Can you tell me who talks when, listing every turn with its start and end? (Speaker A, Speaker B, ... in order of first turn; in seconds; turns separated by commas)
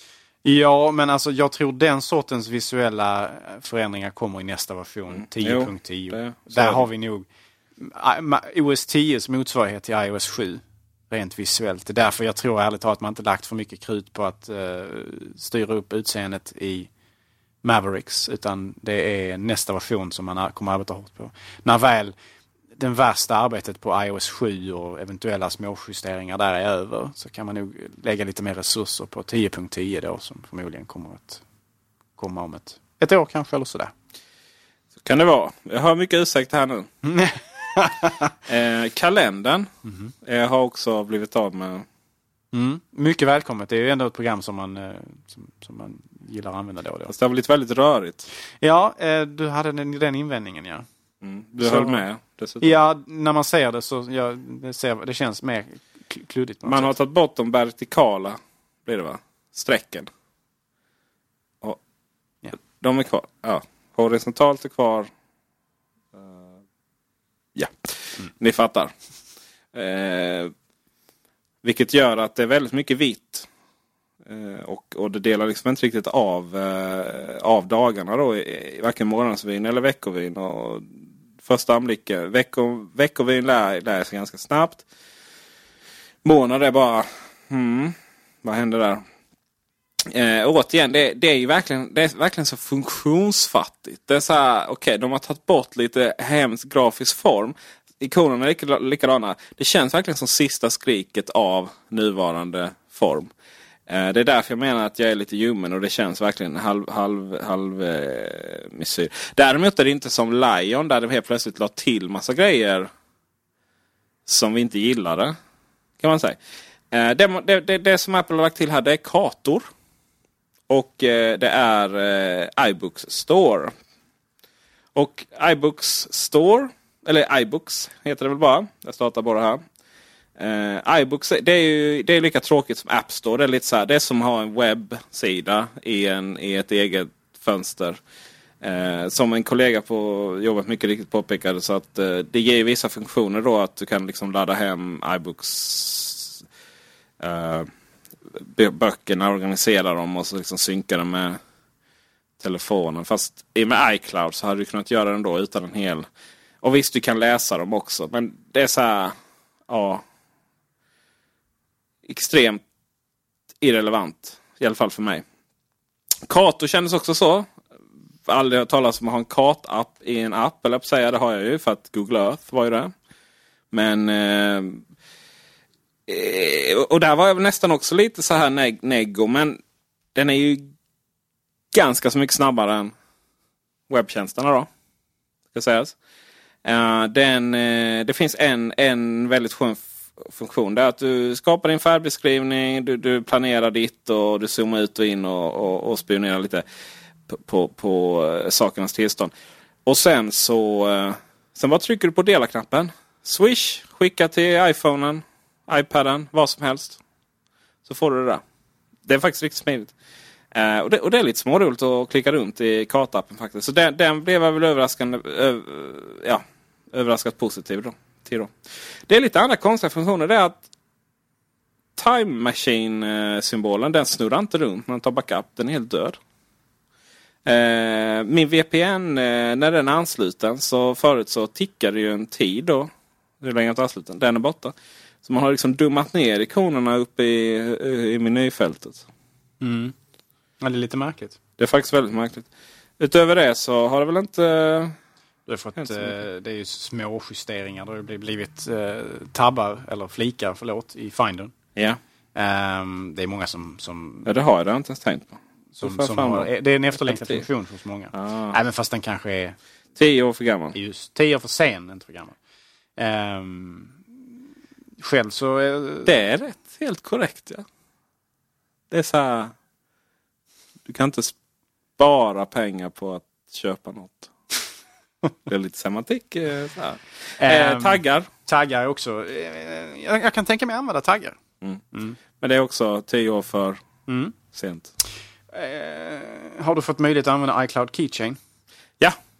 Speaker A: 0.4-7.3, Speaker B: 5.1-6.9, Speaker A: 7.8-16.9, Speaker A: 17.6-22.1, Speaker A: 22.8-31.4, Speaker A: 32.2-33.9, Speaker B: 35.0-36.9, Speaker A: 37.0-38.3, Speaker B: 38.5-39.7, Speaker A: 39.9-40.1, Speaker B: 40.2-41.9, Speaker A: 42.5-47.1, Speaker B: 47.1-48.3, Speaker A: 48.6-50.9, Speaker B: 51.2-52.8, Speaker A: 51.6-52.0, Speaker A: 52.6-56.9, Speaker B: 56.6-60.1, Speaker B: 62.6-65.1, Speaker B: 67.6-68.9, Speaker B: 69.7-70.5, Speaker B: 71.6-73.5, Speaker B: 74.3-80.9, Speaker B: 81.4-84.8, Speaker B: 86.2-89.0, Speaker B: 90.1-103.3, Speaker B: 103.9-112.9, Speaker B: 114.3-115.3, Speaker B: 116.0-116.4, Speaker B: 116.9-119.7, Speaker B: 120.7-123.7, Speaker B: 125.0-129.6, Speaker B: 130.4-138.0, Speaker B: 138.6-146.4, Speaker B: 147.2-147.7, Speaker B: 148.4-151.4, Speaker B: 152.4-156.1, Speaker B: 156.6-159.2, Speaker B: 159.7-160.0, Speaker B: 162.1-162.6, Speaker B: 163.6-165.2, Speaker B: 166.3-167.5, Speaker B: 168.3-172.9, Speaker B: 173.7-174.8, Speaker B: 176.1-179.6, Speaker B: 180.2-180.7, Speaker B: 181.7-182.9, Speaker B: 183.9-184.7, Speaker B: 185.5-185.9, Speaker B: 186.6-196.6, Speaker B: 197.3-199.3, Speaker B: 199.9-207.0, Speaker B: 207.9-208.4, Speaker B: 209.1-209.9, Speaker B: 210.5-218.5, Speaker B: 219.1-220.6, Speaker B: 222.0-226.2, Speaker B: 227.4-232.9, Speaker B: 233.4-234.7, Speaker B: 235.2-239.1, Speaker A: 239.6-239.9, Speaker A: 240.6-241.4, Speaker B: 241.6-242.5, Speaker B: 243.0-245.0, Speaker A: 245.5-251.5, Speaker B: 245.8-246.2, Speaker A: 252.3-254.3, Speaker B: 254.3-257.5, Speaker A: 255.8-259.6, Speaker B: 258.1-258.6, Speaker B: 260.0-260.8, Speaker A: 260.7-262.4, Speaker A: 263.0-264.1, Speaker A: 265.0-266.1, Speaker B: 266.1-267.6, Speaker B: 268.9-269.5, Speaker B: 270.9-271.3, Speaker B: 272.0-274.3, Speaker B: 275.5-278.3, Speaker A: 277.4-281.4, Speaker B: 282.4-283.8, Speaker A: 284.1-284.4, Speaker B: 284.5-284.9, Speaker A: 285.5-288.4